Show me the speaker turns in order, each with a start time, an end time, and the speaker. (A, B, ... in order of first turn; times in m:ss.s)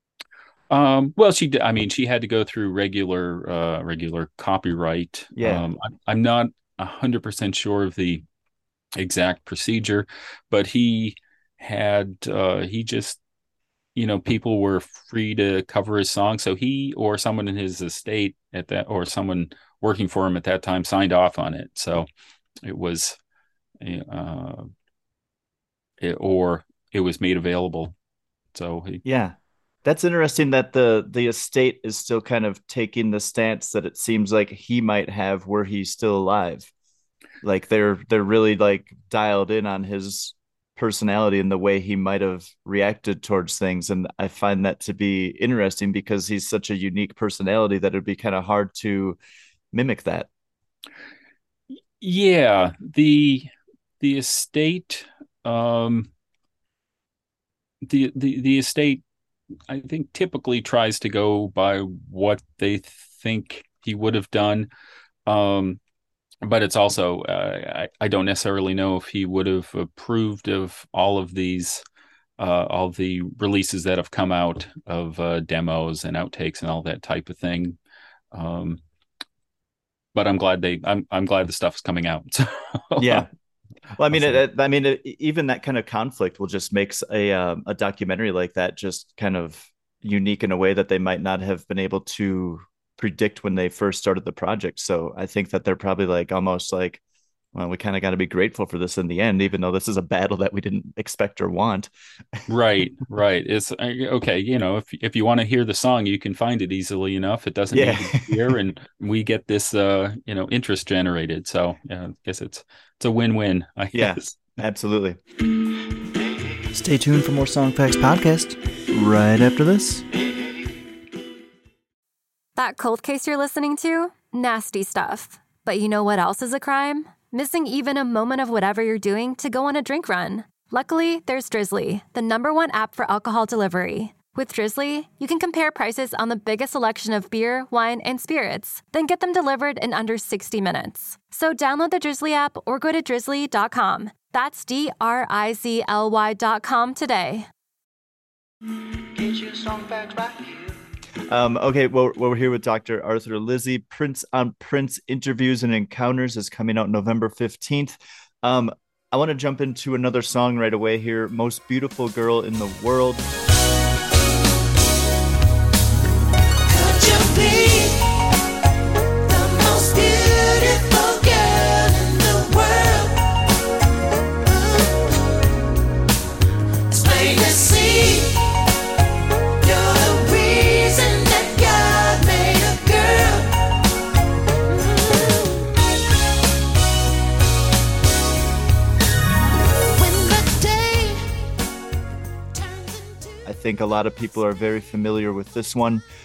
0:00.7-0:08.2 A
0:05.4-0:05.7 B
0:09.0-0:13.2 A
0:14.0-0:22.1 A
0:22.6-0:23.2 A
0:23.8-0:24.7 A
0:26.0-0:27.9 A
0:28.5-0:29.0 A
0:29.0-0:36.7 B
0:37.4-0:49.2 B
0:49.7-0:50.3 B
0:52.0-0:56.1 A
0:57.8-0:59.0 A
0:59.7-1:04.7 A
1:05.3-1:05.8 A
1:06.4-1:11.8 A
1:12.4-1:17.8 A
1:18.3-1:18.8 A
1:20.2-1:23.3 A
1:23.0-1:23.3 B
1:24.0-1:37.0 B
1:24.1-1:24.4 A
1:37.6-1:42.4 B
1:42.5-1:54.3 A
1:47.7-1:48.4 B
1:54.0-1:55.2 B
1:56.7-2:00.1 B
2:02.6-2:27.5 C
2:29.1-2:30.8 D
2:31.3-2:43.3 B
2:46.7-2:48.0 D
2:49.3-2:53.2 D
2:56.9-2:58.4 D
2:59.6-3:03.5 D
3:10.0-3:11.2 D
3:13.5-3:16.0 B